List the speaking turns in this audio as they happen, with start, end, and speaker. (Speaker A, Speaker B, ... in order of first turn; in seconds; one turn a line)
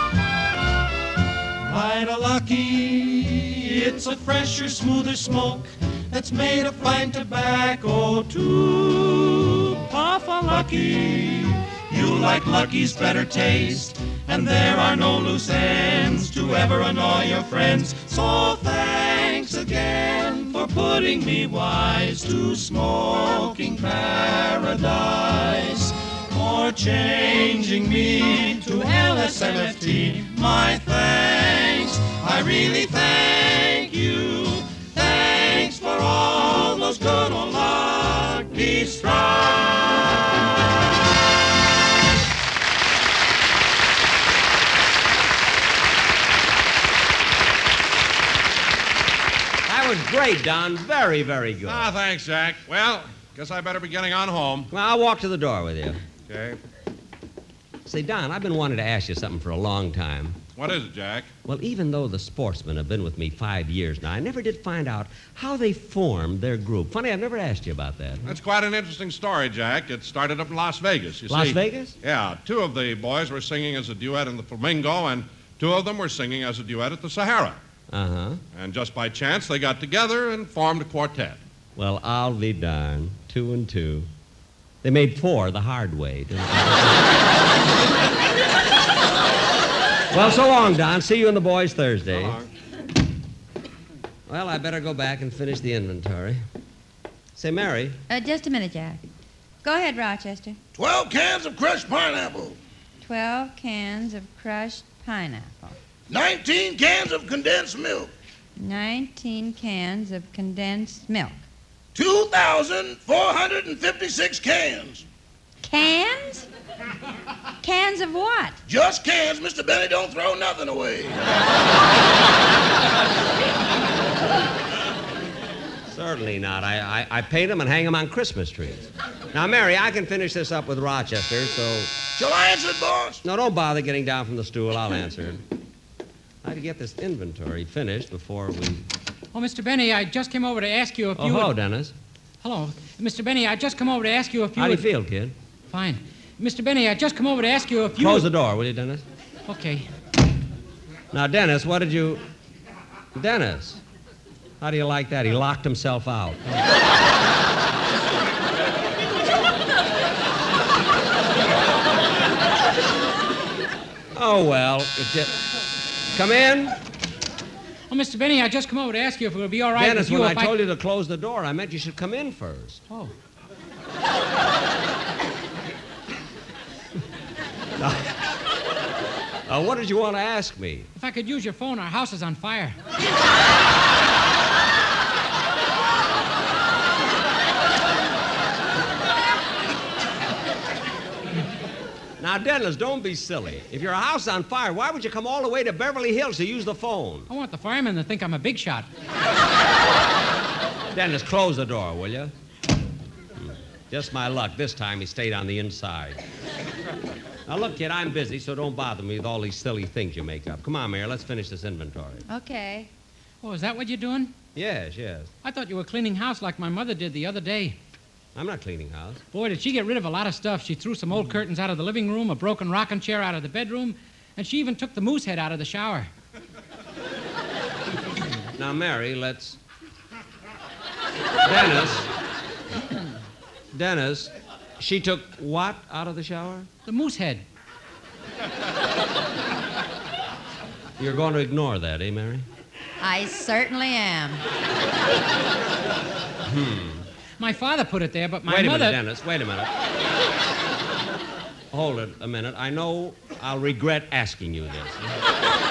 Speaker A: 1.7-40.1
Speaker B: 49.7-51.9
Speaker C: 51.6-54.7
Speaker B: 54.7-56.0
Speaker C: 56.3-56.6
Speaker B: 57.9-60.4
Speaker C: 60.6-61.3
Speaker B: 61.5-68.2
Speaker C: 68.2-77.6
Speaker B: 71.3-72.0
Speaker B: 77.9-78.4
Speaker C: 78.5-81.4
Speaker B: 81.8-84.1
Speaker B: 84.8-87.1
Speaker B: 90.1-92.4
Speaker B: 94.3-96.4
Speaker B: 97.4-98.0
Speaker D: 98.1-99.0
Speaker D: 99.6-100.6
Speaker E: 100.8-102.6
Speaker D: 103.0-105.8
Speaker E: 106.1-108.1
Speaker D: 108.6-111.4
Speaker E: 112.0-115.0
Speaker D: 115.6-116.5
Speaker D: 117.6-118.6
Speaker E: 118.7-121.2
Speaker B: 125.9-131.9
Speaker E: 132.2-133.2
Speaker B: 133.2-135.4
Speaker B: 136.4-138.8
Speaker F: 139.3-141.5
Speaker B: 141.2-141.9
Speaker F: 142.4-144.8
Speaker B: 144.6-145.3
Speaker F: 145.7-148.3
Speaker B: 148.0-149.0
Speaker F: 149.5-149.9
Speaker B: 151.1-152.2
Speaker B: 153.2-153.8
Speaker B: 154.6-156.4
Speaker B: 164.1-165.4
Speaker B: 166.1-166.8
Speaker F: 167.9-170.5
Speaker B: 169.8-172.8
Speaker B: 177.8-178.1
Speaker B: 179.5-180.9
Speaker F: 180.9-182.8
Speaker B: 192.2-197.3
Speaker F: 197.3-198.9
Speaker B: 200.9-202.3
Speaker B: 203.4-206.2
Speaker B: 207.5-212.2
Speaker D: 212.3-212.9
Speaker F: 213.4-214.3
Speaker B: 214.6-215.3
Speaker F: 215.4-217.8
Speaker B: 218.3-219.2
Speaker F: 219.3-226.1
Speaker B: 228.6-229.6
Speaker B: 231.4-232.1
Speaker B: 233.7-236.7
Speaker F: 236.9-237.4
Speaker B: 241.0-242.4
Speaker D: 243.0-244.4
Speaker B: 246.4-247.1
Speaker F: 247.4-249.0
Speaker B: 248.5-249.7
Speaker B: 251.7-255.1